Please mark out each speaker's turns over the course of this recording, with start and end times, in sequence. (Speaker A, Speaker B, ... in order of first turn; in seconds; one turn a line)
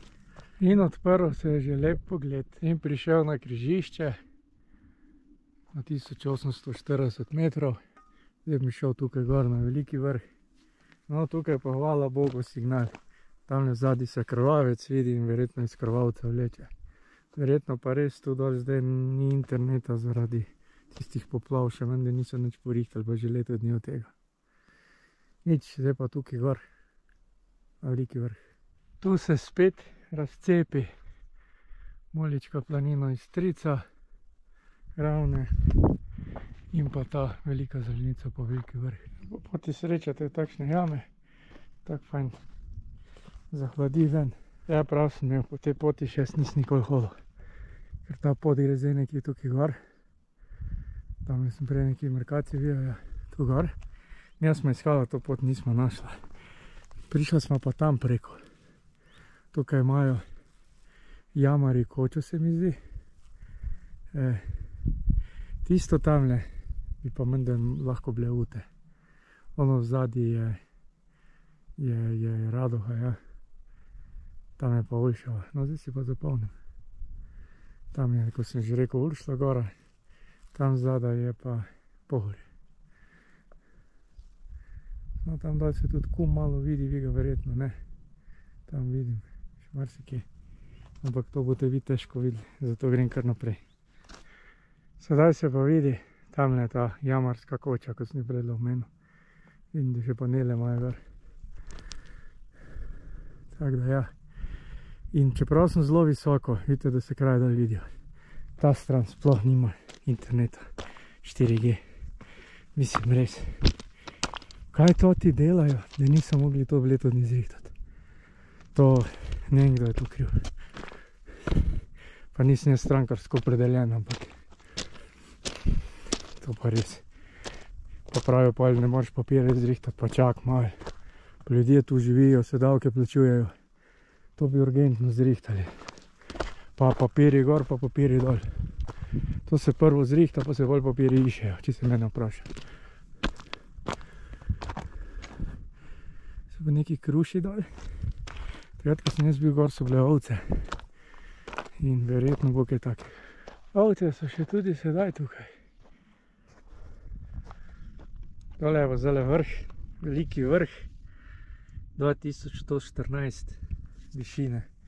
Speaker A: 0.6-4.2
Speaker A: 5.7-7.8
Speaker A: 8.4-10.2
Speaker A: 11.1-16.7
Speaker A: 17.4-24.1
Speaker A: 25.4-26.6
Speaker A: 27.8-28.4
Speaker A: 29.0-30.9
Speaker A: 32.1-33.9
Speaker A: 35.0-35.5
Speaker A: 36.7-41.1
Speaker A: 41.9-42.4
Speaker A: 43.5-47.2
Speaker A: 48.0-49.8
Speaker A: 51.2-53.8
Speaker A: 54.4-56.2
Speaker A: 57.1-58.4
Speaker A: 59.5-60.2
Speaker A: 61.3-62.8
Speaker A: 64.1-64.7
Speaker A: 65.6-68.7
Speaker A: 69.6-70.6
Speaker A: 71.8-73.2
Speaker A: 74.6-76.5
Speaker A: 77.9-79.7
Speaker A: 80.5-82.5
Speaker A: 85.2-87.8
Speaker A: 88.7-90.3
Speaker A: 91.0-93.6
Speaker A: 95.0-98.9
Speaker A: 99.7-101.0
Speaker A: 103.5-104.1
Speaker A: 105.1-107.9
Speaker A: 108.6-110.7
Speaker A: 111.2-111.8
Speaker A: 112.8-113.7
Speaker A: 114.7-117.7
Speaker A: 118.8-120.5
Speaker A: 122.3-124.3
Speaker A: 126.4-127.0
Speaker A: 128.1-130.8
Speaker A: 131.4-133.5
Speaker A: 134.4-135.7
Speaker A: 136.8-138.5
Speaker A: 139.5-142.5
Speaker A: 146.5-147.7
Speaker A: 148.8-150.7
Speaker A: 151.8-153.2
Speaker A: 153.7-155.5
Speaker A: 158.6-160.9
Speaker A: 162.0-164.7